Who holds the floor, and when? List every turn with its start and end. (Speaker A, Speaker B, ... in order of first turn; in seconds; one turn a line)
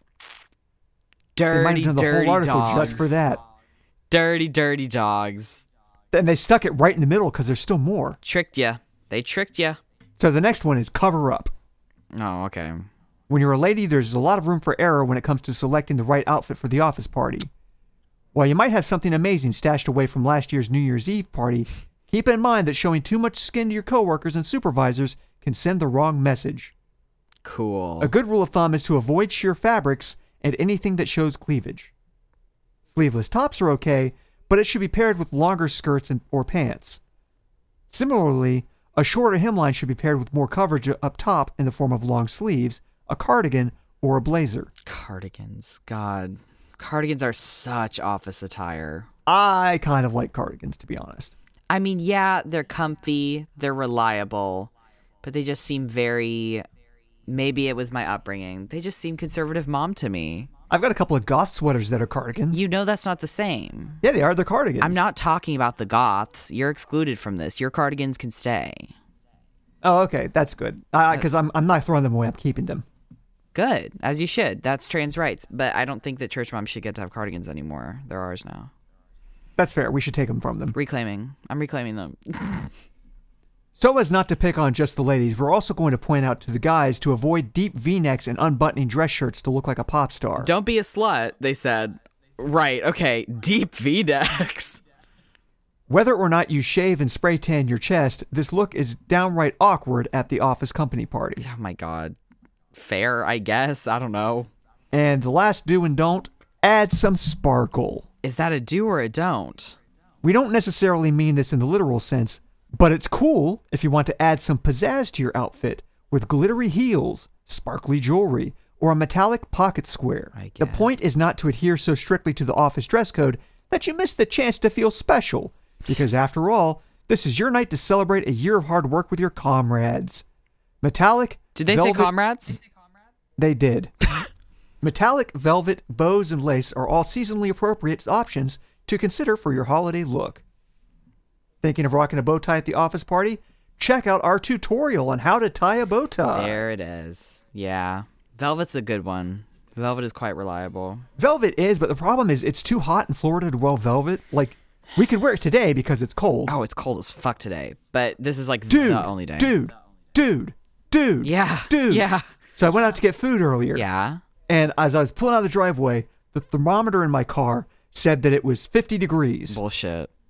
Speaker A: 1.4-3.2
Speaker B: 1.5-3.4
Speaker A: 4.1-5.7
Speaker B: 6.1-8.2
Speaker A: 8.2-9.8
Speaker B: 10.2-11.5
Speaker A: 12.1-12.9
Speaker B: 13.3-17.5
Speaker B: 18.3-26.7
Speaker A: 27.4-28.1
Speaker B: 28.0-31.9
Speaker B: 32.9-37.0
Speaker B: 37.9-44.7
Speaker A: 44.8-49.1
Speaker B: 49.2-51.3
Speaker A: 51.7-54.7
Speaker A: 55.2-56.6
Speaker A: 57.3-60.5
Speaker B: 60.7-62.6
Speaker A: 62.5-64.0
Speaker B: 64.0-65.0
Speaker A: 64.8-68.9
Speaker B: 69.8-72.8
Speaker A: 73.5-78.7
Speaker B: 79.6-80.7
Speaker A: 80.7-82.7
Speaker B: 83.8-90.5
Speaker A: 90.4-94.8
Speaker B: 95.9-101.4
Speaker A: 101.4-102.2
Speaker A: 102.7-104.5
Speaker B: 104.9-108.0
Speaker A: 108.2-109.8
Speaker B: 110.2-130.2
Speaker A: 120.3-121.1
Speaker B: 130.8-132.1
Speaker A: 131.5-132.6
Speaker B: 133.4-133.9
Speaker B: 134.8-140.4
Speaker B: 141.6-146.6
Speaker A: 146.3-151.0
Speaker B: 151.2-156.5
Speaker A: 156.5-159.6
Speaker B: 158.7-163.8
Speaker A: 161.2-162.3
Speaker A: 163.7-164.2
Speaker B: 164.5-169.6
Speaker A: 169.5-170.1